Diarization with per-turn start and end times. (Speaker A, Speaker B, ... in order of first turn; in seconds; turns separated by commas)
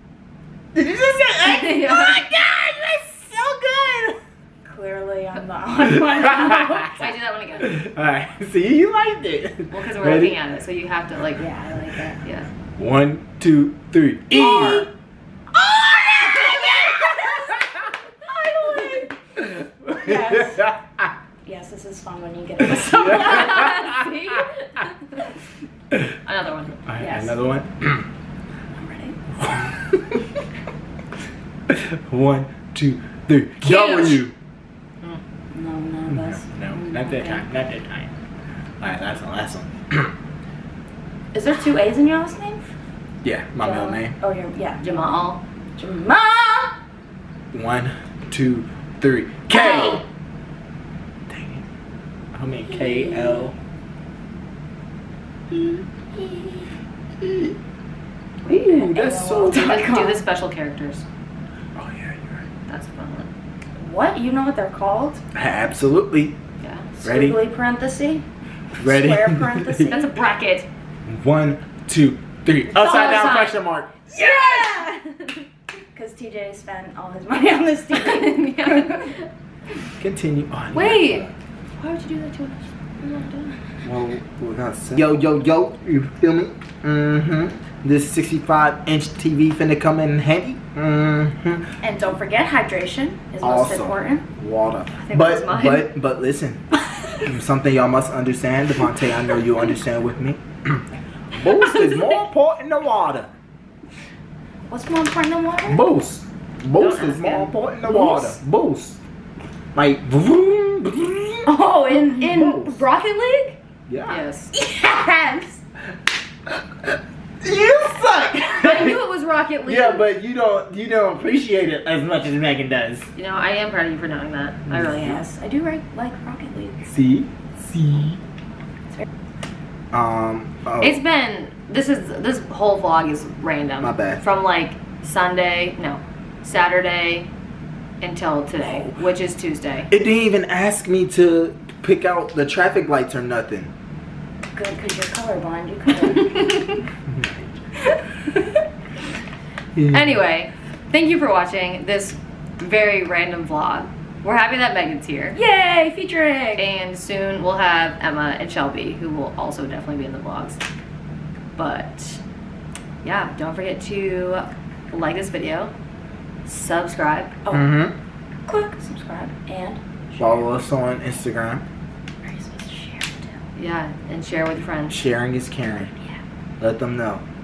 Speaker A: 0.7-4.2, Speaker B: 1.4-2.2, Speaker C: 4.7-7.0, Speaker A: 5.8-6.9, Speaker B: 6.2-7.9, Speaker A: 7.6-10.4, Speaker B: 9.7-11.5, Speaker C: 11.4-12.2, Speaker B: 12.2-12.5, Speaker A: 12.8-14.9, Speaker B: 14.3-14.9, Speaker C: 14.4-14.9, Speaker A: 15.6-17.3, Speaker C: 16.0-20.7, Speaker A: 19.9-21.1, Speaker C: 21.4-24.0, Speaker A: 22.6-23.9, Speaker B: 23.1-24.9, Speaker B: 26.2-26.9, Speaker A: 26.9-28.1, Speaker C: 27.0-27.4, Speaker C: 28.7-29.2, Speaker A: 29.4-30.2, Speaker A: 31.7-34.3, Speaker B: 33.6-34.2, Speaker C: 35.5-37.1, Speaker A: 36.1-38.1, Speaker B: 37.1-37.4, Speaker A: 38.8-40.1, Speaker C: 41.3-42.7, Speaker A: 43.2-44.1, Speaker C: 43.6-45.2, Speaker B: 44.8-45.4, Speaker C: 45.8-46.7, Speaker A: 47.5-50.0, Speaker B: 49.5-50.0, Speaker A: 51.3-51.6, Speaker A: 52.3-53.6, Speaker C: 52.7-53.5, Speaker C: 56.1-56.7, Speaker A: 57.2-57.5, Speaker A: 58.5-59.8, Speaker C: 58.5-60.2, Speaker B: 59.5-61.0, Speaker A: 61.8-62.5, Speaker B: 62.7-63.3, Speaker C: 63.8-65.2, Speaker A: 65.3-66.4, Speaker B: 66.6-66.9, Speaker C: 67.0-68.2, Speaker A: 67.0-67.4, Speaker C: 68.8-70.1, Speaker A: 68.8-70.0, Speaker B: 69.8-70.7, Speaker A: 71.1-74.5, Speaker B: 72.7-73.6, Speaker C: 72.8-73.4, Speaker C: 74.1-75.1, Speaker C: 75.9-79.2, Speaker B: 77.9-79.2, Speaker A: 80.0-81.3, Speaker B: 80.7-83.5, Speaker A: 83.8-91.7, Speaker C: 91.8-94.3, Speaker A: 93.4-96.6, Speaker B: 95.0-95.9, Speaker A: 97.2-103.3, Speaker C: 104.7-105.8, Speaker A: 105.7-109.0, Speaker B: 106.8-107.5, Speaker C: 107.9-108.4, Speaker A: 109.8-111.7, Speaker C: 111.5-113.6, Speaker A: 112.2-112.8, Speaker A: 113.9-114.2, Speaker B: 114.1-114.5, Speaker C: 114.5-115.6, Speaker A: 116.8-123.1, Speaker B: 118.5-120.1, Speaker B: 123.2-125.2, Speaker A: 124.7-125.2, Speaker C: 125.0-126.9, Speaker A: 126.9-128.2, Speaker A: 129.9-131.0, Speaker B: 130.8-137.3, Speaker A: 133.8-134.2, Speaker B: 138.0-139.9, Speaker A: 138.6-139.0, Speaker A: 139.9-143.7, Speaker C: 144.5-146.7, Speaker A: 147.1-147.6, Speaker C: 147.9-148.4, Speaker A: 149.8-150.2, Speaker B: 149.9-155.4, Speaker C: 155.3-156.7, Speaker B: 156.6-160.6, Speaker B: 161.6-162.2, Speaker B: 163.0-165.7, Speaker B: 166.4-167.4, Speaker C: 167.4-167.8, Speaker A: 167.5-167.9, Speaker C: 168.5-170.5, Speaker A: 170.2-171.6, Speaker C: 172.2-173.4, Speaker B: 173.6-175.0, Speaker A: 174.9-175.9, Speaker C: 175.9-176.2, Speaker A: 176.6-177.2